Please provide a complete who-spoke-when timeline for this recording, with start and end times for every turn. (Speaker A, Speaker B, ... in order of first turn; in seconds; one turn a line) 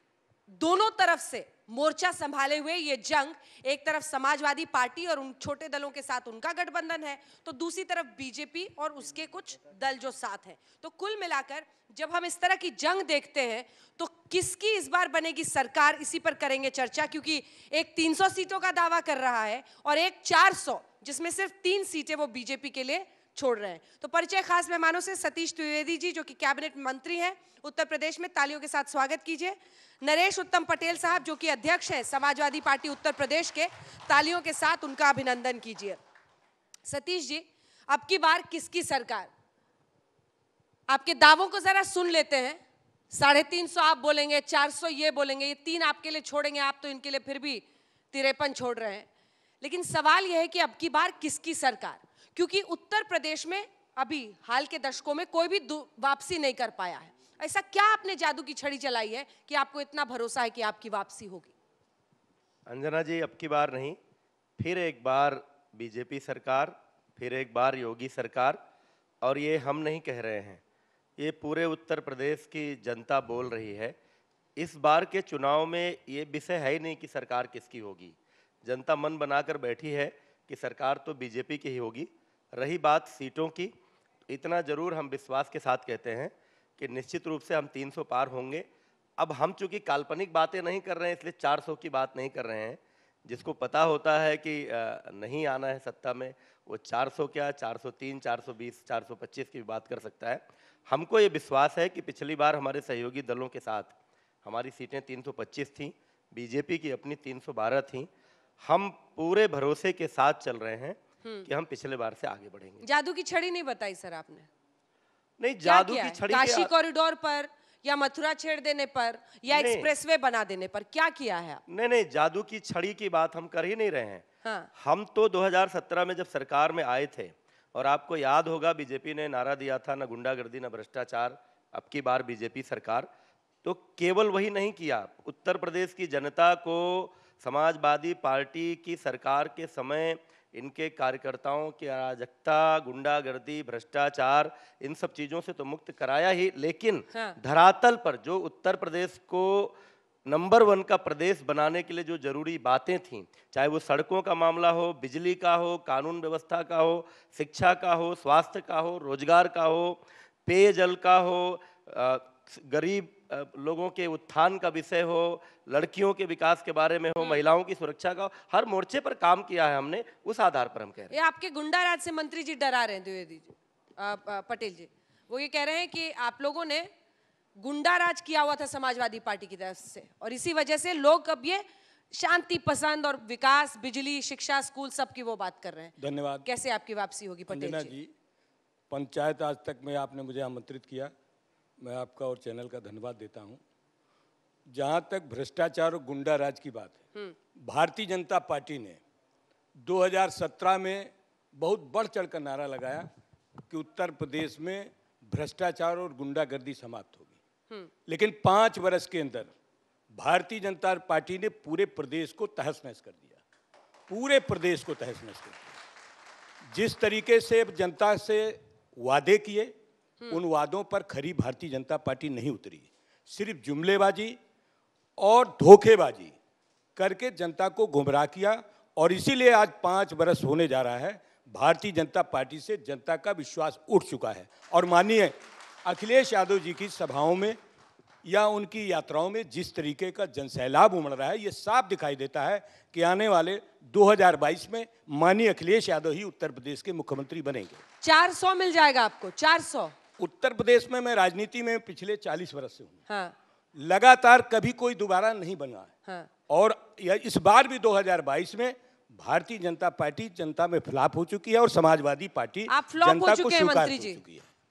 Speaker A: 0.5-36.0
Speaker A: 36.9-39.3
Speaker A: 40.9-49.1
Speaker A: 49.6-61.5
Speaker B: 62.7-64.0
Speaker B: 64.6-68.6
Speaker B: 69.2-70.6
Speaker B: 71.2-73.9
Speaker B: 74.6-83.7
Speaker B: 84.3-88.6
Speaker B: 89.2-103.9
Speaker B: 104.4-108.1
Speaker B: 108.6-112.8
Speaker A: 112.8-114.5
Speaker B: 115.4-116.7
Speaker A: 115.6-121.6
Speaker B: 119.5-119.9
Speaker B: 121.7-124.2
Speaker A: 124.4-124.7
Speaker B: 124.8-133.1
Speaker B: 133.6-149.7
Speaker B: 150.2-171.1
Speaker A: 171.1-176.9
Speaker A: 177.6-187.9
Speaker C: 186.0-186.4
Speaker C: 187.5-188.1
Speaker C: 188.9-191.1
Speaker C: 191.8-193.6
Speaker C: 194.7-197.0
Speaker C: 197.6-199.0
Speaker C: 199.8-203.1
Speaker C: 203.7-207.3
Speaker C: 208.1-209.5
Speaker C: 210.1-213.4
Speaker C: 214.1-215.7
Speaker C: 216.7-219.7
Speaker C: 220.3-224.4
Speaker C: 225.2-226.3
Speaker C: 226.9-235.3
Speaker C: 235.8-237.6
Speaker C: 238.2-247.8
Speaker A: 248.0-249.9
Speaker C: 250.2-252.9
Speaker A: 253.1-253.3
Speaker C: 253.7-255.9
Speaker C: 256.5-264.4
Speaker A: 262.7-264.2